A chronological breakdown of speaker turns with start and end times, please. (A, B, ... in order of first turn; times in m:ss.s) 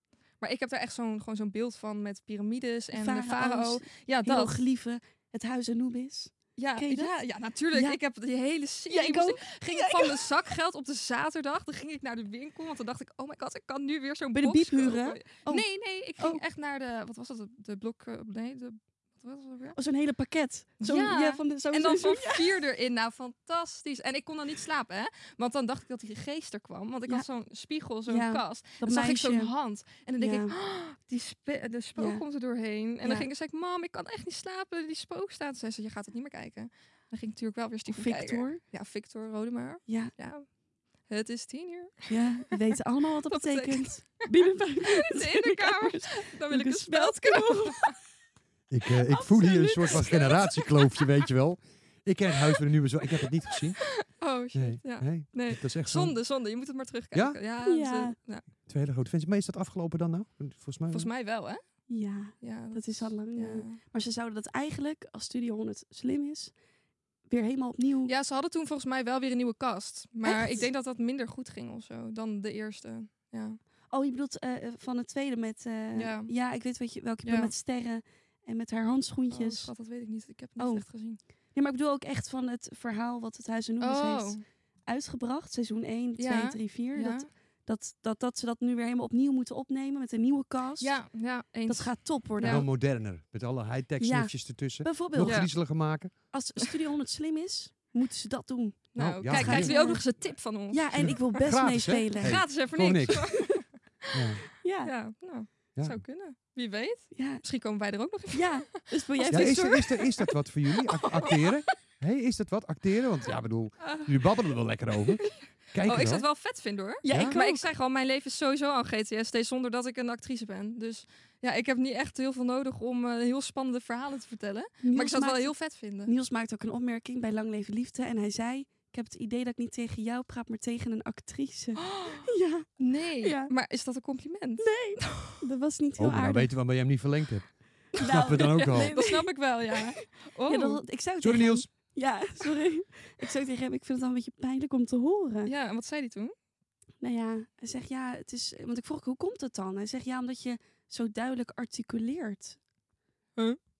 0:00.4-0:04.6 A
0:02.9-0:07.2 B
0:06.6-0:19.8 A
0:07.7-0:08.0 B
0:08.9-0:10.3 B
0:14.4-0:15.7 B
0:16.2-0:16.4 B
0:19.8-0:22.6 B
0:20.8-0:42.1 A
0:28.1-0:29.5 B
0:30.2-0:30.5 B
0:32.0-0:32.2 B
0:33.0-0:33.3 B
0:37.9-0:38.6 B
0:39.9-0:40.1 B
0:42.1-0:48.0 B
0:43.3-0:44.3 A
0:44.8-0:48.0 A
0:48.7-0:53.9 C
0:49.1-0:50.4 B
0:49.9-0:50.3 A
0:54.1-0:58.4 A
0:54.5-0:56.2 C
0:57.1-0:57.4 C
0:57.6-0:58.2 B
0:58.7-1:01.1 C
1:00.9-1:01.6 A
1:01.9-1:06.5 B
1:02.4-1:03.8 A
1:07.3-1:08.1 B
1:08.0-1:13.6 A
1:10.2-1:10.7 B
1:13.9-1:19.7 B
1:15.9-1:16.3 A
1:17.2-1:17.5 A
1:19.3-1:21.2 A
1:20.6-1:20.9 B
1:21.5-1:31.0 B
1:23.8-1:24.4 A
1:26.2-1:27.3 A
1:30.8-1:32.6 A
1:31.6-1:32.7 B
1:32.4-1:36.1 C
1:34.0-1:35.6 B
1:35.2-1:35.5 A
1:36.3-1:42.5 B
1:38.9-1:41.4 A
1:39.0-1:39.8 C
1:40.9-1:43.6 C
1:42.2-1:44.1 A
1:44.1-1:44.4 C
1:44.6-1:44.9 B
1:44.8-1:49.7 A
1:45.8-1:46.0 C
1:47.1-1:47.4 B
1:48.3-1:50.2 B
1:49.3-1:56.3 C
1:53.8-1:54.1 A
1:55.8-2:06.1 A
1:57.0-1:57.7 B
1:57.1-1:57.4 C
2:04.8-2:13.5 B
2:11.8-2:15.4 A
2:14.6-2:16.5 B
2:16.0-2:18.9 C
2:18.0-2:25.5 B
2:18.4-2:20.8 A
2:21.2-2:21.7 C
2:25.5-2:26.3 A
2:27.0-2:32.6 B